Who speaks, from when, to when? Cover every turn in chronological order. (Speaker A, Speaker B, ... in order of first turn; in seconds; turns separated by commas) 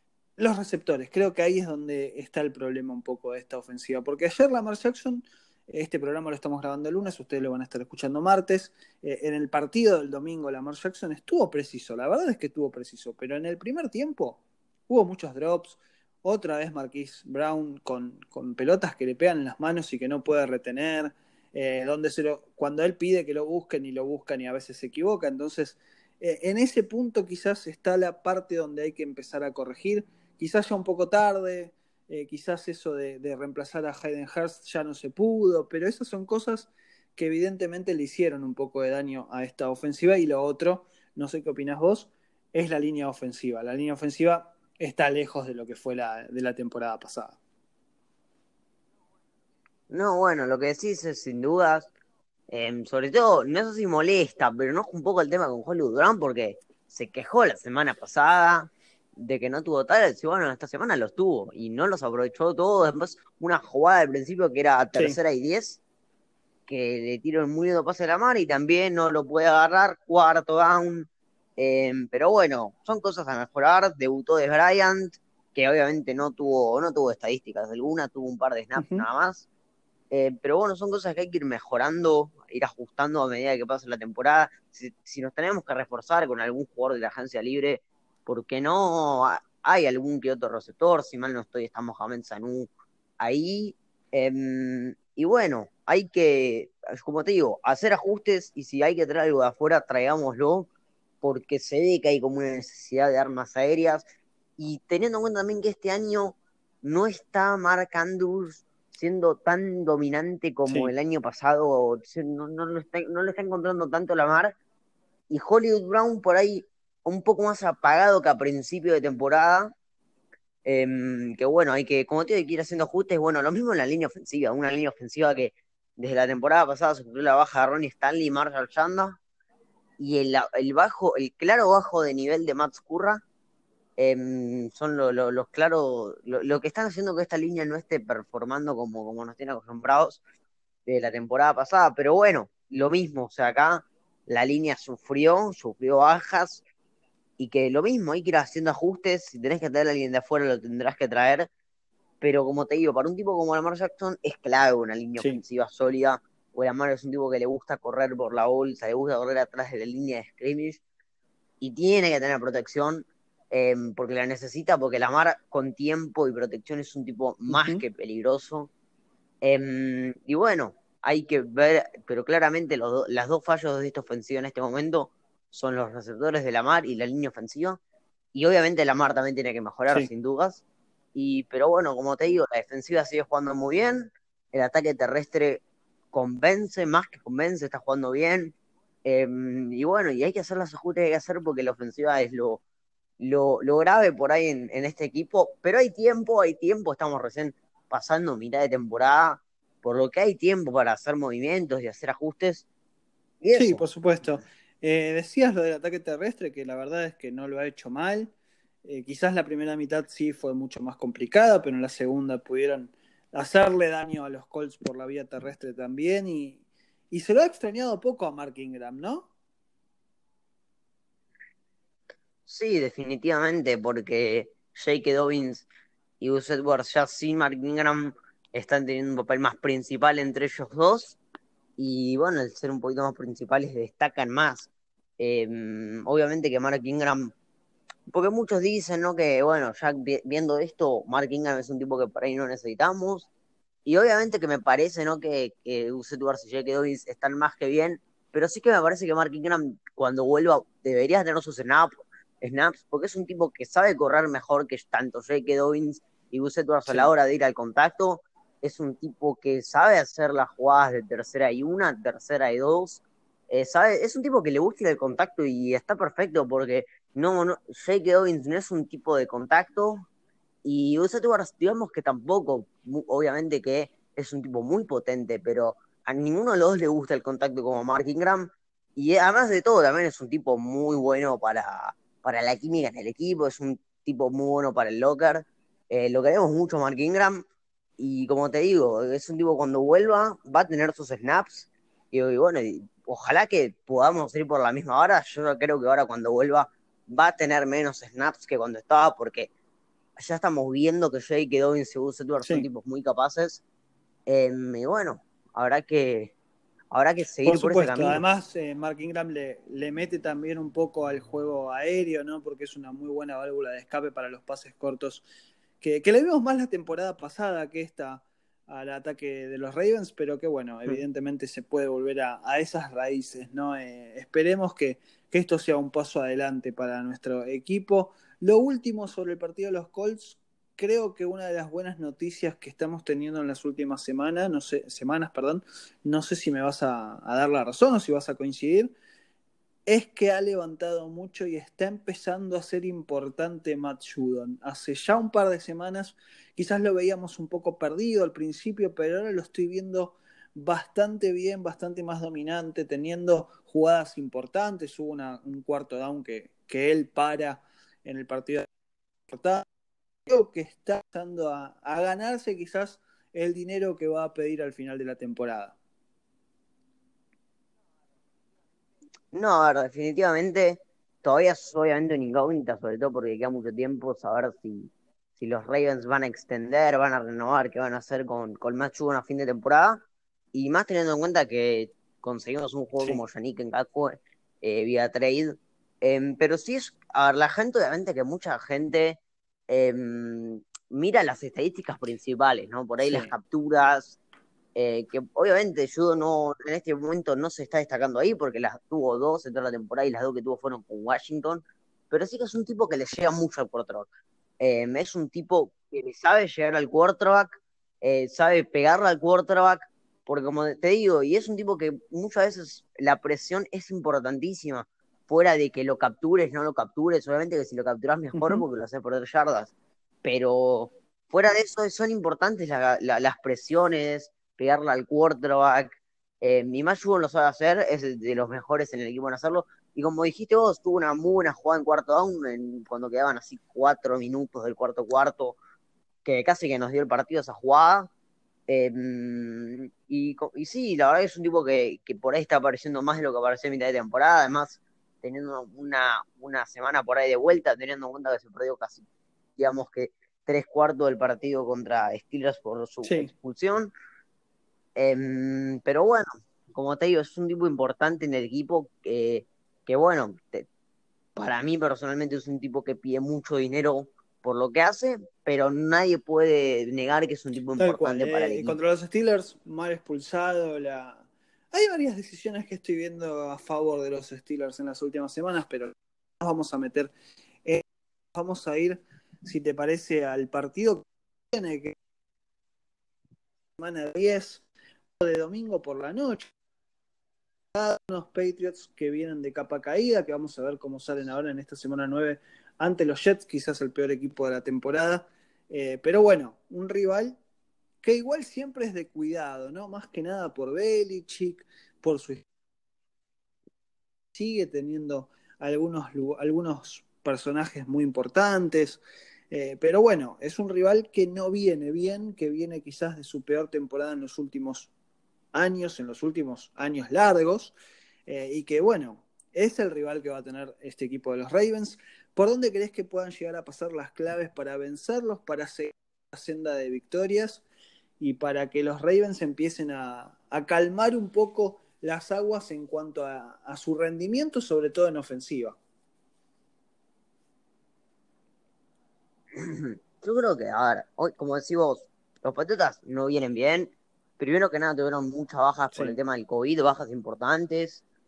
Speaker A: 0.4-47.4, Speaker B: 49.9-51.9, Speaker B: 52.5-65.8, Speaker B: 66.7-79.5, Speaker A: 78.8-79.1, Speaker B: 80.1-92.7, Speaker B: 93.2-100.7, Speaker B: 101.2-104.1, Speaker B: 104.6-114.5, Speaker A: 110.7-110.9, Speaker B: 115.3-119.7, Speaker B: 120.7-129.2, Speaker B: 130.0-133.2, Speaker B: 134.0-140.2, Speaker B: 140.9-146.6, Speaker B: 147.4-151.5, Speaker B: 152.2-160.8, Speaker B: 161.6-168.7, Speaker A: 167.5-167.8, Speaker B: 169.4-177.8, Speaker B: 178.3-180.6, Speaker B: 181.2-188.5, Speaker B: 189.1-192.6, Speaker B: 193.2-202.7, Speaker B: 203.4-204.4, Speaker A: 203.6-208.3, Speaker A: 208.8-219.3, Speaker B: 222.5-225.7, Speaker B: 226.2-231.2, Speaker B: 231.8-237.3, Speaker B: 238.1-243.3, Speaker B: 243.9-270.1, Speaker A: 256.9-257.1, Speaker B: 270.6-287.4, Speaker B: 288.0-299.5, Speaker B: 300.2-303.6, Speaker B: 304.3-306.3, Speaker B: 306.9-308.2, Speaker A: 307.4-315.2, Speaker A: 315.8-338.9, Speaker A: 339.9-358.7, Speaker A: 359.3-359.6, Speaker A: 360.3-365.8, Speaker B: 369.3-380.0, Speaker B: 380.5-389.2, Speaker B: 389.7-394.2, Speaker B: 394.8-404.1, Speaker B: 404.6-419.7, Speaker A: 418.4-418.6, Speaker B: 420.2-435.6, Speaker B: 436.2-438.1, Speaker B: 438.7-449.1, Speaker B: 449.6-453.9, Speaker A: 453.0-453.3, Speaker B: 455.0-460.7, Speaker B: 461.4-468.8, Speaker A: 467.8-477.1, Speaker A: 477.6-481.9, Speaker A: 483.8-484.6, Speaker A: 485.2-486.5, Speaker A: 487.7-497.4, Speaker A: 498.0-502.4, Speaker A: 504.3-514.9, Speaker A: 515.5-517.7, Speaker A: 518.3-527.6, Speaker A: 528.2-535.8, Speaker B: 539.5-548.0